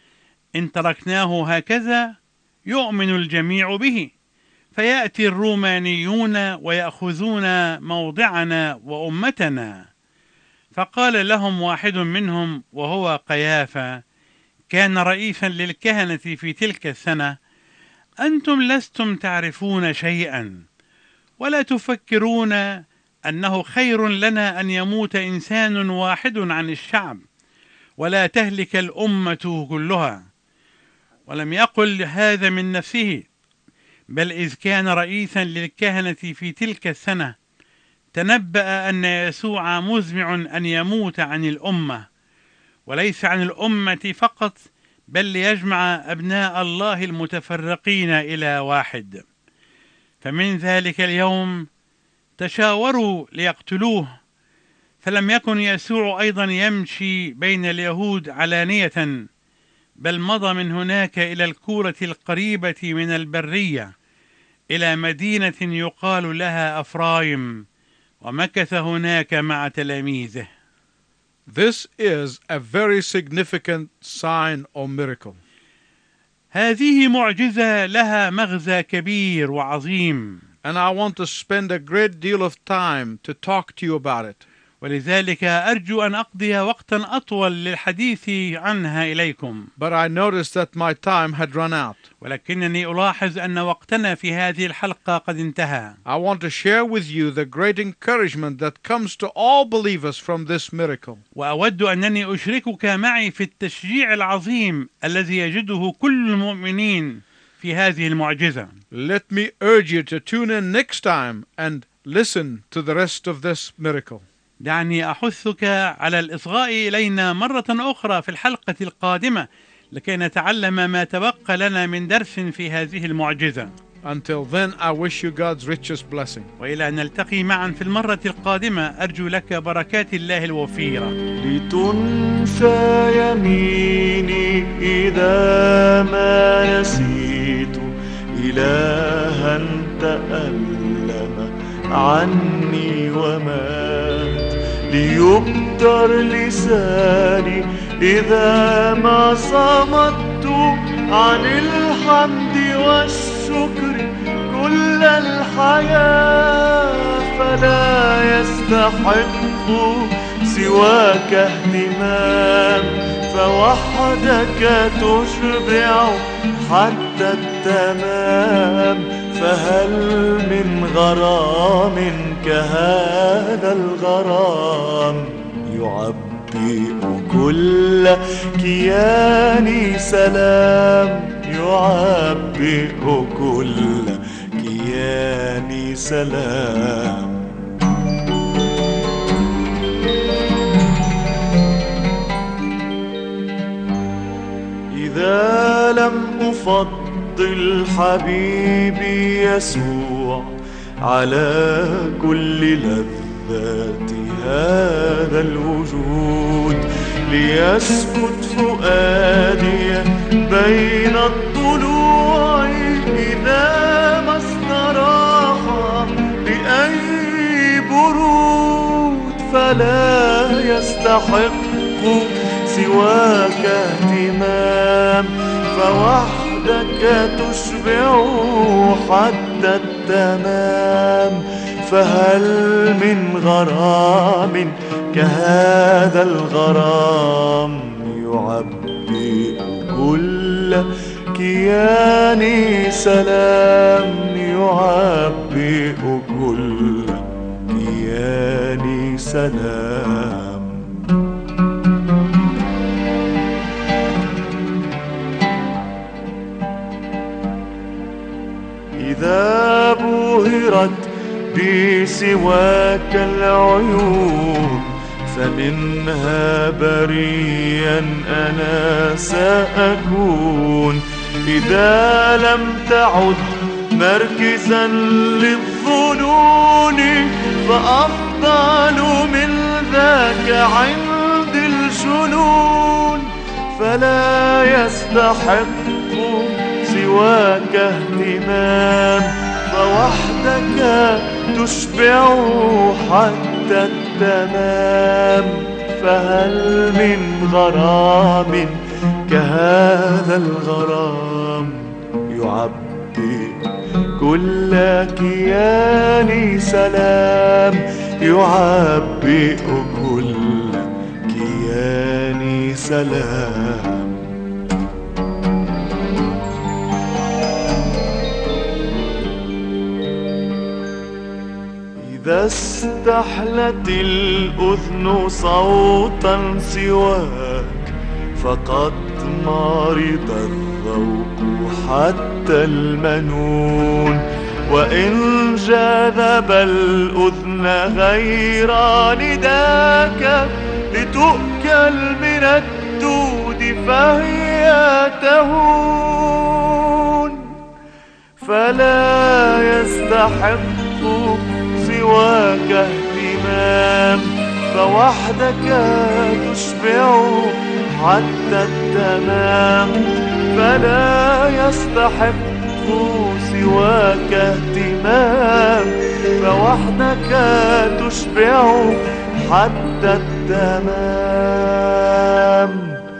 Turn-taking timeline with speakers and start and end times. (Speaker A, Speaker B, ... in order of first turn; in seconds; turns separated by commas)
Speaker A: 0.6-2.1, Speaker A: 2.7-4.1, Speaker A: 4.7-9.9, Speaker A: 10.7-14.0, Speaker A: 14.7-17.3, Speaker A: 18.2-20.6, Speaker A: 21.4-22.7, Speaker A: 23.3-27.2, Speaker A: 28.0-30.2, Speaker A: 31.3-33.2, Speaker A: 34.1-37.3, Speaker A: 38.1-42.0, Speaker A: 42.9-44.6, Speaker A: 45.1-49.2, Speaker A: 50.2-51.7, Speaker A: 52.4-54.1, Speaker A: 55.0-59.2, Speaker A: 60.0-63.9, Speaker A: 64.7-67.6, Speaker A: 68.2-70.5, Speaker B: 71.5-75.4, Speaker A: 76.5-80.4, Speaker B: 80.6-84.4, Speaker A: 84.8-89.7, Speaker B: 89.8-92.0, Speaker A: 92.2-96.0, Speaker B: 96.0-101.2, Speaker A: 101.3-108.7, Speaker B: 108.9-114.2, Speaker A: 114.6-123.7, Speaker B: 124.0-126.5, Speaker A: 126.6-131.1, Speaker C: 131.4-187.4, Speaker C: 194.9-251.0, Speaker C: 259.0-298.8, Speaker C: 299.3-303.6, Speaker C: 304.2-314.2, Speaker C: 322.1-347.5, Speaker C: 348.4-373.0